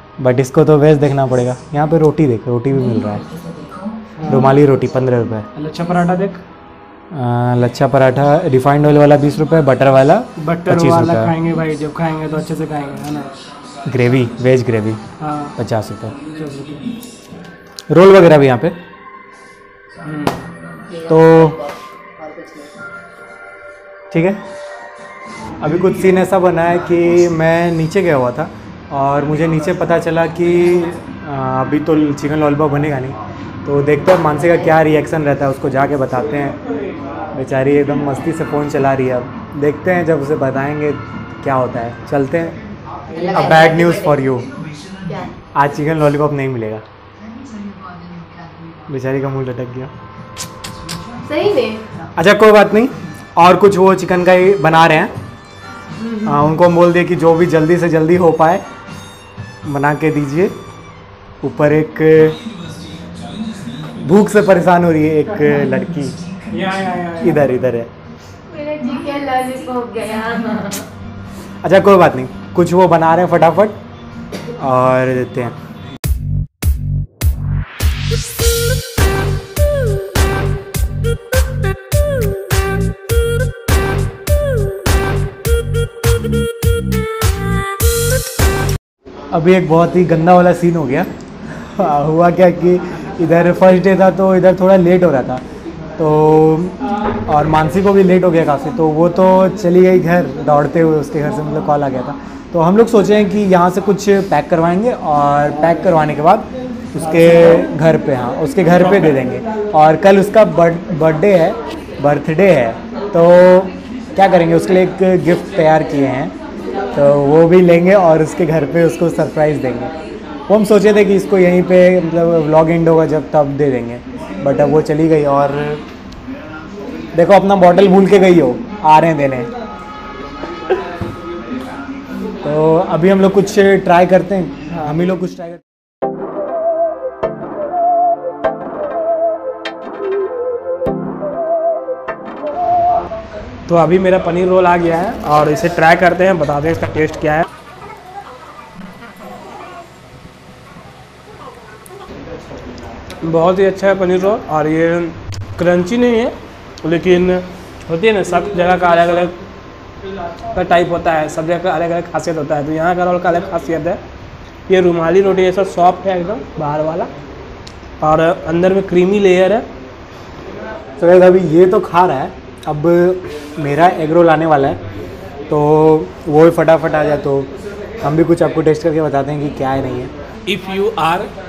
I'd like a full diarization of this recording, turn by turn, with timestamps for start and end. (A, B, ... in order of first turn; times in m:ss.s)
0:00.2-0:03.2 A
0:04.2-0:04.5 B
0:04.3-0:05.5 A
0:05.5-0:06.4 B
0:07.1-0:11.3 A
0:10.4-0:13.3 B
0:13.8-0:15.0 A
0:15.2-0:15.5 B
0:15.6-0:16.2 A
0:16.3-0:16.9 B
0:17.9-0:18.8 A
0:20.0-0:20.5 B
0:20.9-0:22.8 C
0:21.1-0:21.6 A
0:24.1-0:24.4 A
0:25.6-0:36.6 A
0:37.3-0:42.6 A
0:43.1-0:44.2 C
0:43.3-0:44.5 A
0:45.0-0:45.3 C
0:45.5-0:46.8 A
0:48.9-0:49.9 A
0:51.2-0:51.8 C
0:52.1-0:55.1 A
0:56.0-0:56.3 C
0:56.2-0:58.6 A
0:59.6-1:00.5 A
1:01.4-1:02.4 A
1:03.8-1:06.2 A
1:06.5-1:07.4 B
1:07.2-1:07.9 A
1:08.5-1:10.9 C
1:11.6-1:13.8 A
1:14.5-1:15.6 A
1:29.3-1:35.4 A
1:36.0-1:36.8 A
1:37.3-1:56.3 A
1:56.9-1:59.9 A
2:00.5-2:05.8 A
2:07.1-2:09.5 A
2:12.4-2:15.6 A
2:23.7-2:27.5 B
2:33.2-2:39.4 B
2:40.5-2:44.0 B
2:44.7-2:47.1 B
2:48.0-2:49.7 B
2:51.0-2:54.8 A
2:55.5-2:57.5 A
2:58.0-3:00.1 A
3:00.5-3:01.3 B